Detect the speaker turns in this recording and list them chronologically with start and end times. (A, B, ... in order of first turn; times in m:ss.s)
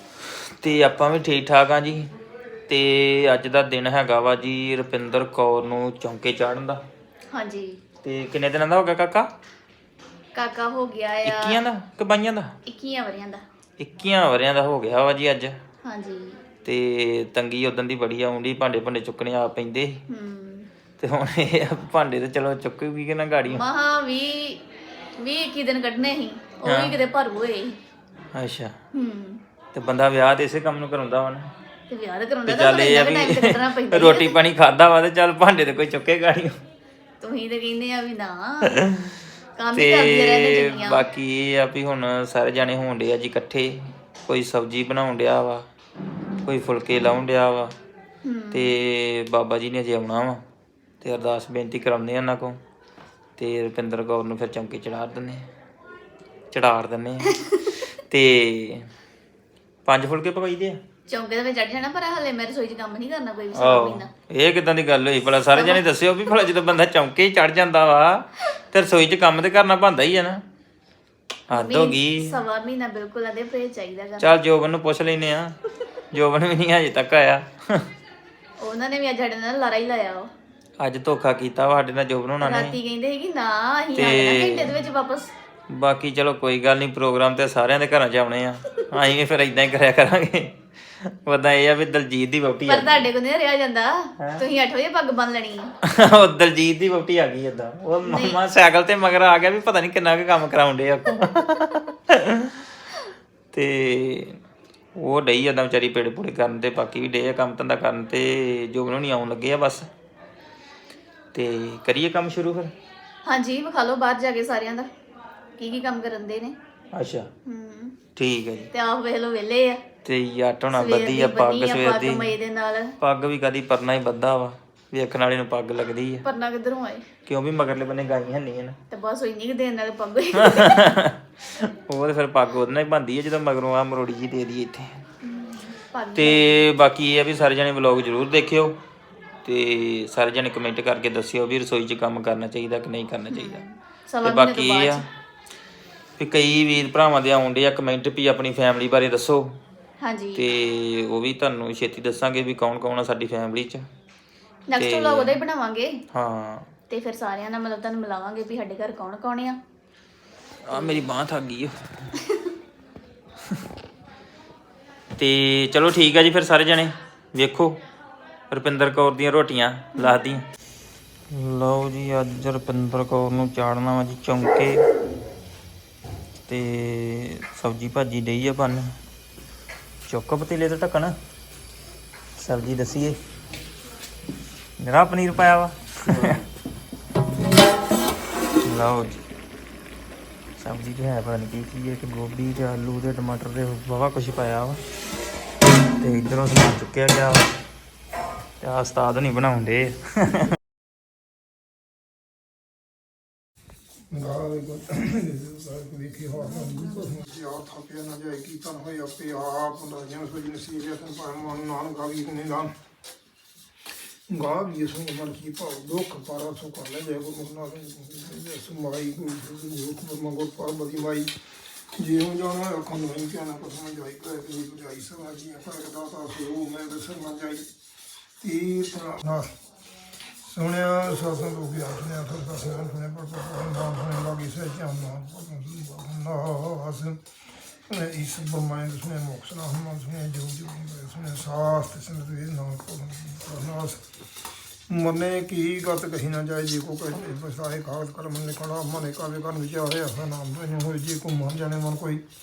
0:00.6-0:02.1 A
0:02.7-0:06.8 A
0:07.3-0:07.8 B
0:08.0-0:09.3 A
0:10.4-0:11.6 B
0:11.2-0:12.6 A
0:12.7-0:13.4 B
0:13.8-0:15.6 A
0:15.8-0:16.4 B
0:16.6-0:20.0 A
0:20.1-0:20.7 B
0:21.0-0:23.6 A
0:23.5-0:24.6 B
0:25.2-0:27.8 B
0:26.6-0:27.0 A
0:28.4-0:28.7 A
0:29.0-0:29.4 B
0:29.7-0:31.5 A
0:31.9-0:34.4 B
0:32.5-0:36.6 A
0:37.2-0:38.7 B
0:38.7-0:39.2 A
0:39.6-0:41.1 B
0:39.7-0:45.6 A
0:46.5-0:47.7 A
0:48.2-0:48.8 B
0:48.5-0:50.4 A
0:51.0-0:52.6 A
0:53.4-0:55.4 A
0:56.5-0:57.3 A
0:58.1-0:58.9 A
0:59.9-1:00.8 A
1:01.1-1:04.1 B
1:03.6-1:10.4 A
1:05.5-1:05.8 B
1:11.5-1:12.3 A
1:11.5-1:14.4 B
1:14.2-1:15.5 A
1:16.1-1:17.8 A
1:18.6-1:20.3 B
1:20.8-1:22.8 A
1:22.4-1:25.3 B
1:23.9-1:24.7 A
1:25.7-1:30.5 A
1:31.3-1:33.0 A
1:32.7-1:35.7 B
1:35.9-1:42.5 A
1:38.1-1:38.4 B
1:43.5-1:44.4 A
1:45.0-1:49.9 A
1:51.3-1:52.7 A
1:53.2-1:54.9 B
1:55.6-1:56.5 B
1:57.0-1:57.3 A
1:57.5-1:58.0 B
1:58.2-1:58.7 A
1:58.7-1:59.8 B
2:00.0-2:02.3 A
2:00.7-2:02.9 B
2:03.0-2:06.2 A
2:06.2-2:07.0 B
2:07.3-2:08.8 A
2:08.9-2:10.8 B
2:10.4-2:15.0 A
2:15.2-2:16.7 B
2:16.2-2:18.8 A
2:19.4-2:23.6 A
2:23.3-2:25.0 B
2:24.2-2:25.0 A
2:26.2-2:29.5 A
2:30.0-2:30.5 B
2:30.4-2:33.9 A
2:34.7-2:35.9 B
2:34.8-2:35.4 A
2:36.1-2:36.7 A
2:36.9-2:39.6 B
2:40.7-2:41.7 A
2:42.2-2:42.5 B
2:45.2-2:47.8 A
2:48.5-2:50.4 A
2:51.3-2:54.8 A
2:56.5-2:58.9 A
3:00.1-3:01.2 A
3:02.4-3:03.2 A
3:04.8-3:06.4 A
3:08.6-3:09.2 A
3:10.6-3:14.8 A
3:16.0-3:17.4 A
3:18.6-3:20.5 A
3:24.1-3:32.7 C
3:34.3-3:41.3 C
3:42.0-3:47.7 C
3:48.4-3:49.5 C
3:50.5-3:57.2 C
3:57.9-4:04.0 C
4:04.9-4:12.2 C